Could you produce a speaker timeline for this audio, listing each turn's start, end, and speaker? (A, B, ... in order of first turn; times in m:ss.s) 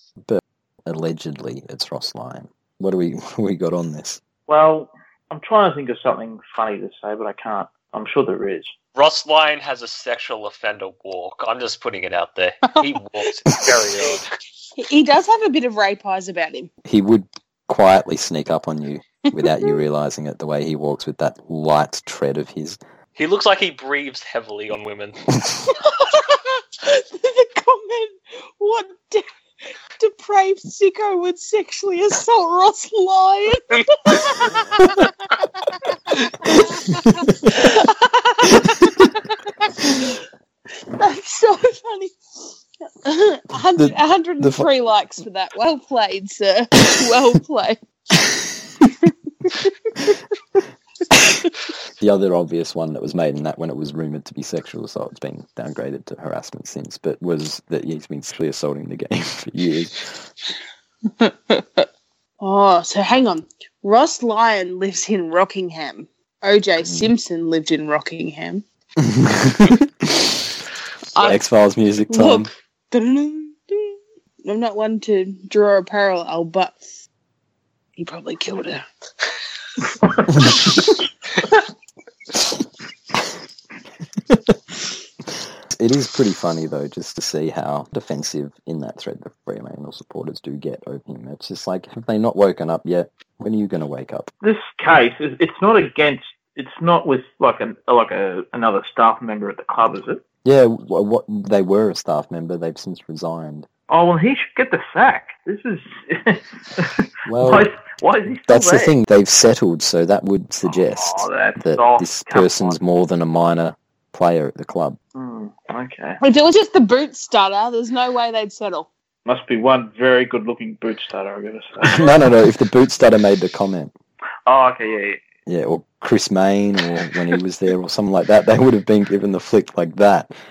0:00.2-0:04.2 A
0:04.5-0:08.7 B
0:09.0-0:14.3 C
0:14.8-0:16.7 D
0:16.8-0:22.8 A
0:19.4-0:19.8 D
0:23.2-0:25.2 C
0:25.7-0:29.3 D
0:30.0-0:40.2 D
0:36.9-0:37.7 A
0:38.6-0:39.1 A
0:41.0-0:42.2 D
0:43.0-0:47.8 D
0:43.8-0:44.7 A
0:49.4-0:50.1 D
0:52.0-1:00.2 A
1:01.2-1:01.9 D
1:02.4-1:08.6 D
1:06.8-1:07.1 A
1:09.0-1:10.4 A
1:11.1-1:11.4 D
1:11.2-1:12.5 A
1:12.1-1:16.8 D
1:18.0-1:18.9 D
1:20.1-1:20.9 B
1:25.7-1:34.3 A
1:34.4-1:40.2 B
1:40.4-1:43.7 A
1:43.9-1:48.9 B
1:47.3-1:47.7 A
1:48.5-1:55.0 A
1:50.7-1:52.8 B
1:55.2-1:56.2 B
1:56.2-1:58.9 D
1:59.2-2:02.2 B
2:01.8-2:03.9 A
2:04.5-2:05.2 B
2:05.5-2:10.3 A